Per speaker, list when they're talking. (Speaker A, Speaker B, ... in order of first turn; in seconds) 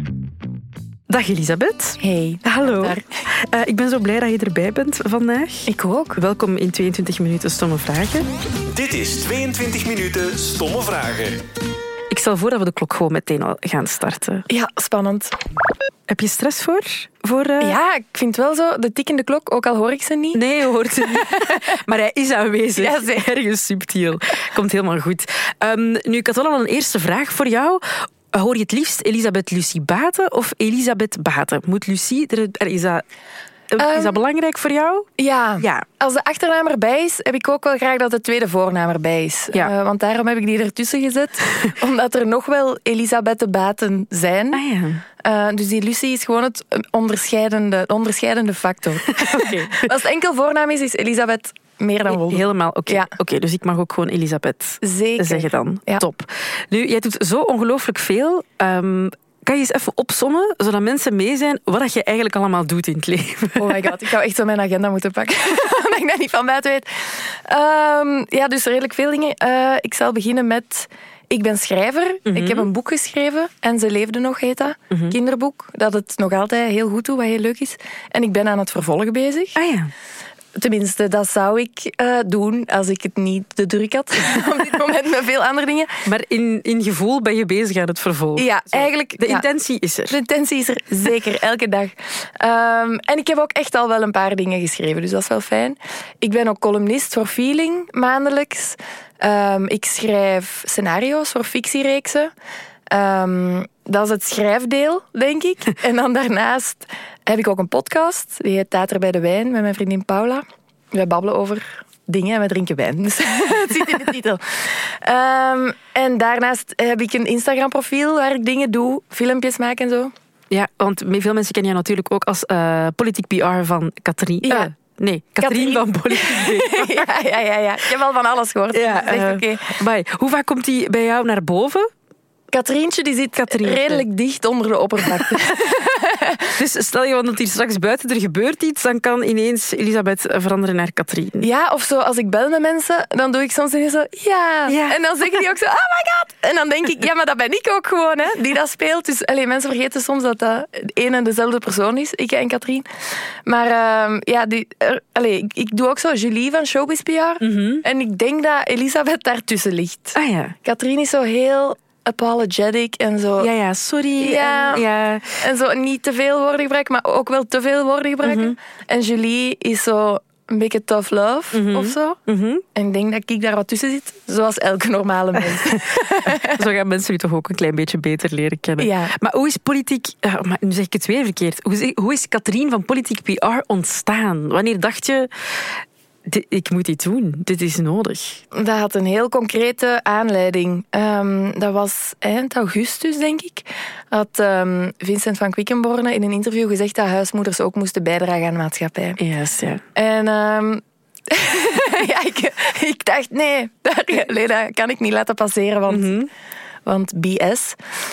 Speaker A: 1.1-8.3, 12.1-14.4, 16.1-17.8, 20.3-33.0, 33.7-35.1, 35.6-35.8, 44.5-45.0, 49.1-49.9, 52.1-63.9, 72.2-72.7, 79.5-79.9, 86.0-90.2, 120.5-127.1, 128.7-131.9, 133.4-134.0, 135.1-135.5, 136.6-141.5, 144.7-145.2, 157.4-157.8, 160.1-160.5, 163.4-165.4, 168.2-168.5, 171.5-172.6, 175.5-188.4, 199.2-199.8, 205.9-206.3
Speaker B: 2.0-3.2, 5.7-6.2, 14.5-15.3, 17.6-20.4, 20.9-21.6, 22.7-23.2, 33.8-34.2, 35.2-44.6, 45.2-53.1, 54.8-56.0, 63.6-79.6, 80.5-86.0, 88.3-89.4, 90.1-102.3, 102.9-120.1, 125.4-129.8, 132.5-136.6, 141.4-152.8, 153.4-163.5, 164.2-172.2, 172.7-176.6, 178.8-179.1, 188.5-199.2, 199.9-206.2, 206.8-207.8
Speaker C: 8.7-11.4